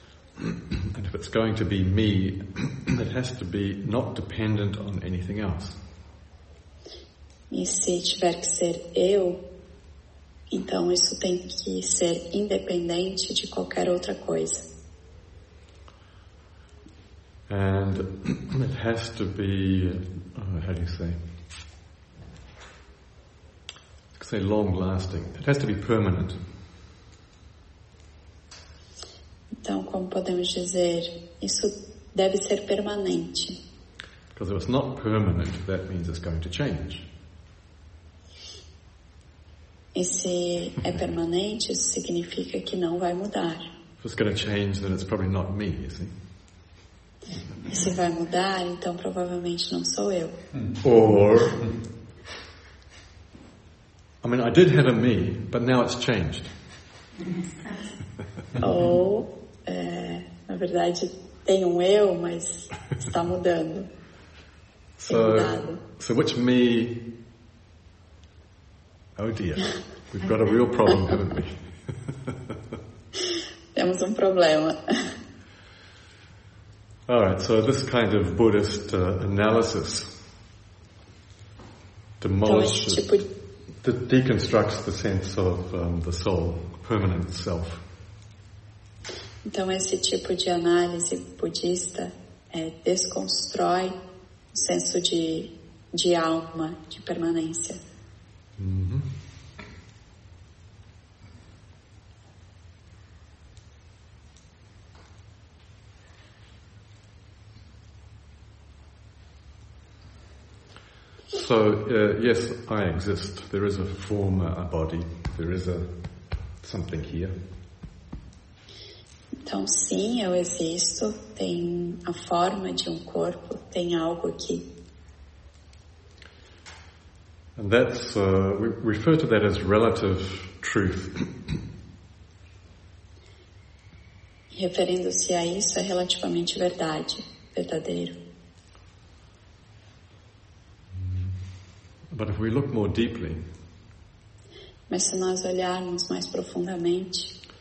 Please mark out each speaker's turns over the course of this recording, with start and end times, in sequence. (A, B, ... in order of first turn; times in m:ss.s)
0:00.9-0:05.8 A
0:07.5-0:09.4 B
0:10.5-0:14.6 B
0:17.5-0:21.2 A
0:24.1-0:26.4 A
0:29.6-0:33.6 B
0:34.3-0:37.1 A
0:39.9-0:43.6 B
0:44.0-0:46.1 A
0:47.7-0:50.4 B
0:50.8-0:51.6 A
0:54.2-0:56.5 A
0:58.6-1:03.9 B
1:05.0-1:07.0 A
1:05.1-1:05.8 B
1:09.2-1:12.5 A
1:13.7-1:15.1 B
1:17.1-1:20.1 A
1:22.2-1:23.0 A
1:22.4-1:23.3 B
1:23.8-1:27.8 A
1:29.4-1:34.0 B
1:34.5-1:37.8 B
1:38.6-1:39.1 A
1:51.3-1:55.9 A
1:56.6-1:57.3 A
1:59.4-2:04.6 B
2:07.6-2:11.5 A
2:14.5-2:18.2 B
2:20.9-2:21.3 A
2:22.1-2:23.4 A
2:24.9-2:27.3 B